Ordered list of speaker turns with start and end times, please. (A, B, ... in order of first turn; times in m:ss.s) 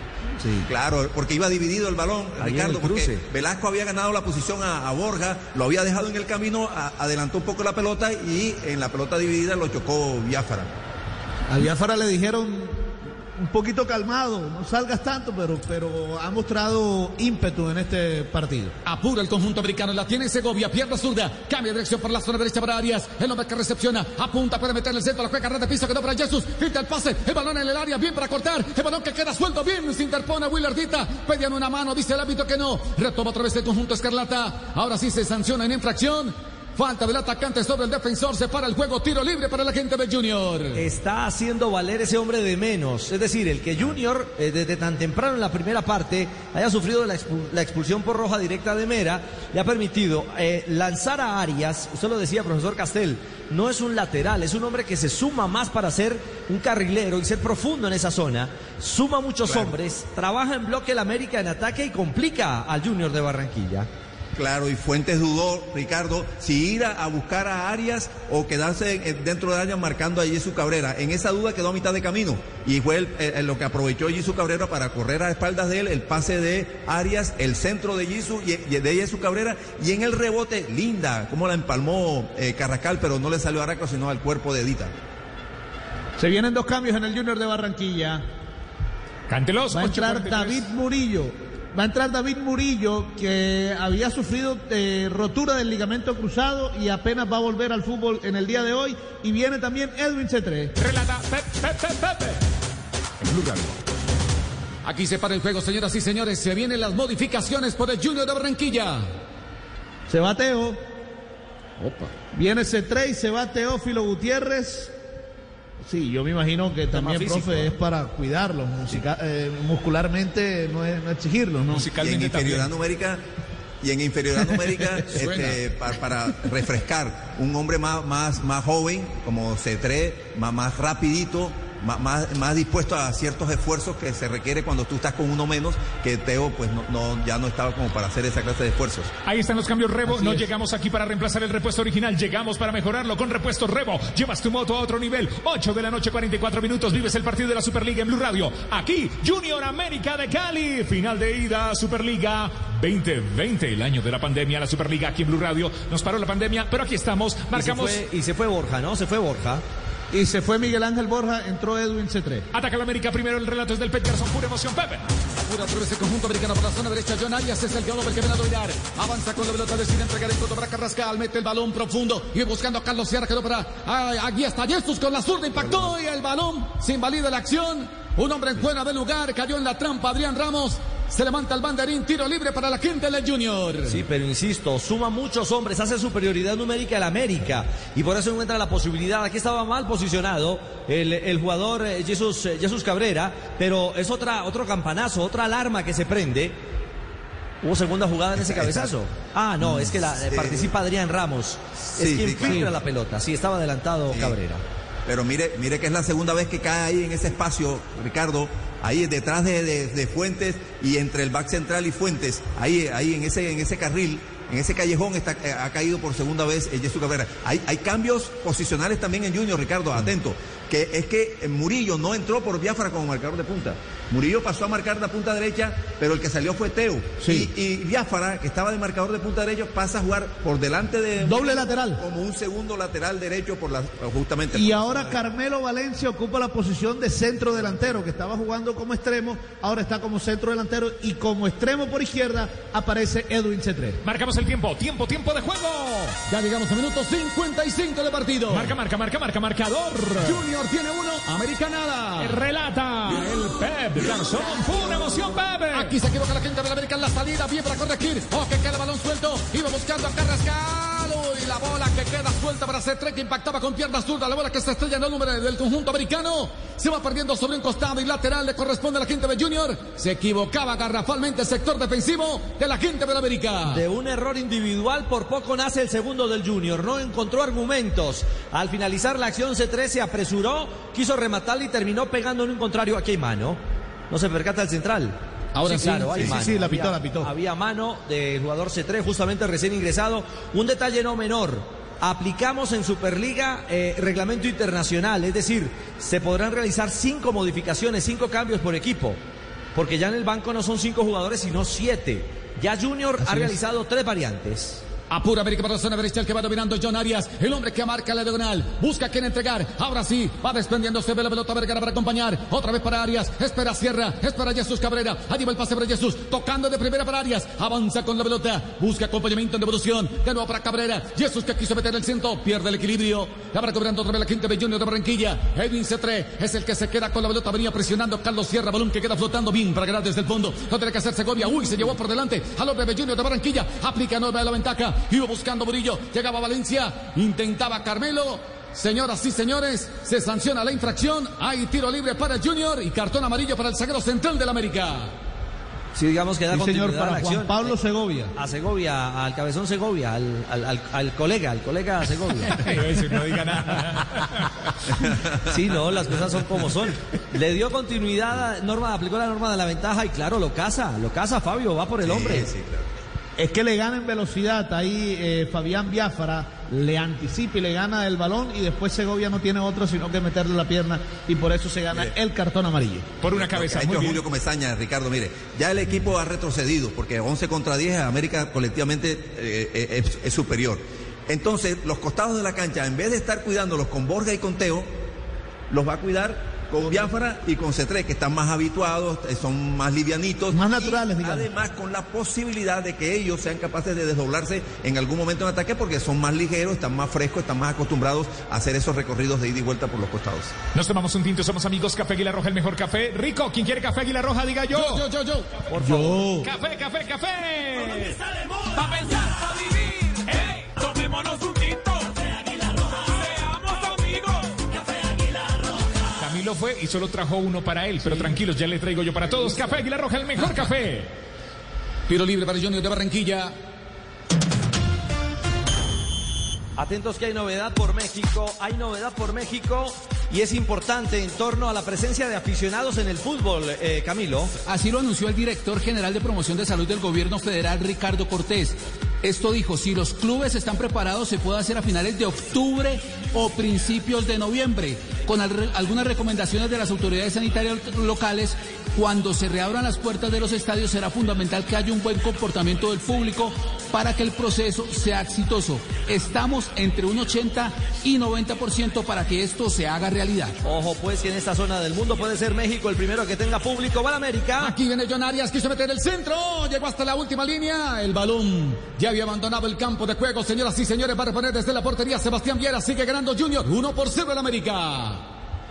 0:00.4-0:00.7 A
0:00.7-0:10.7 B
0:02.4-0:03.2 C
0:11.5-0:18.8 A
0:18.8-0:40.8 D
0:40.8-1:03.9 C
0:59.5-0:59.8 B
1:04.4-1:24.9 B
1:26.2-1:28.2 A
1:29.3-1:30.6 E
1:29.7-1:40.7 A
1:40.8-1:42.4 E
1:43.2-1:43.8 E
1:44.8-1:49.1 D
1:50.1-1:50.8 A
1:51.8-1:52.1 D
1:52.3-1:54.9 A
1:55.8-2:02.0 A
1:56.9-1:57.7 C
2:01.7-2:02.7 E
2:01.9-2:03.2 B
2:03.8-2:19.1 B
2:19.3-2:38.0 E
2:37.5-2:39.6 C
2:40.1-2:42.5 A
2:42.5-2:45.1 E
2:45.4-3:04.0 D
3:03.9-3:16.6 C
3:17.6-3:24.6 C
3:18.4-3:18.9 B
3:20.3-3:20.7 B
3:22.0-3:22.7 B
3:22.4-3:22.7 A
3:24.1-3:24.4 B
3:25.1-3:55.2 B
3:47.2-3:47.5 A
3:51.2-3:52.0 A
3:54.5-4:04.0 A
4:04.0-4:06.2 E
4:06.3-4:08.8 D
4:08.5-4:10.4 E
4:10.2-4:12.4 D
4:12.2-4:15.9 E
4:15.7-4:33.8 D
4:33.7-4:43.6 C
4:44.1-4:59.2 C
4:45.6-4:46.1 D
4:45.7-4:47.3 A
4:59.8-5:04.8 C
5:03.2-5:03.6 A
5:05.1-5:45.1 D
5:46.0-5:47.8 C
5:46.5-5:48.3 A
5:48.4-5:52.7 C
5:52.5-5:54.7 E
5:55.0-5:55.6 B
5:55.4-6:02.5 C
6:02.0-6:02.9 B
6:03.4-6:13.1 A
6:13.2-6:14.2 E
6:13.4-6:24.9 B
6:25.7-6:40.5 B
6:30.5-6:31.5 A
6:40.7-6:45.0 E
6:44.7-6:45.5 D
6:45.7-6:46.2 C
6:45.8-6:46.5 A
6:46.4-6:48.2 E
6:47.8-6:56.2 F
6:56.2-7:01.1 E
7:02.1-7:03.6 D
7:06.8-7:14.5 C
7:14.7-7:40.6 G
7:40.6-7:44.8 C
7:44.6-7:55.2 D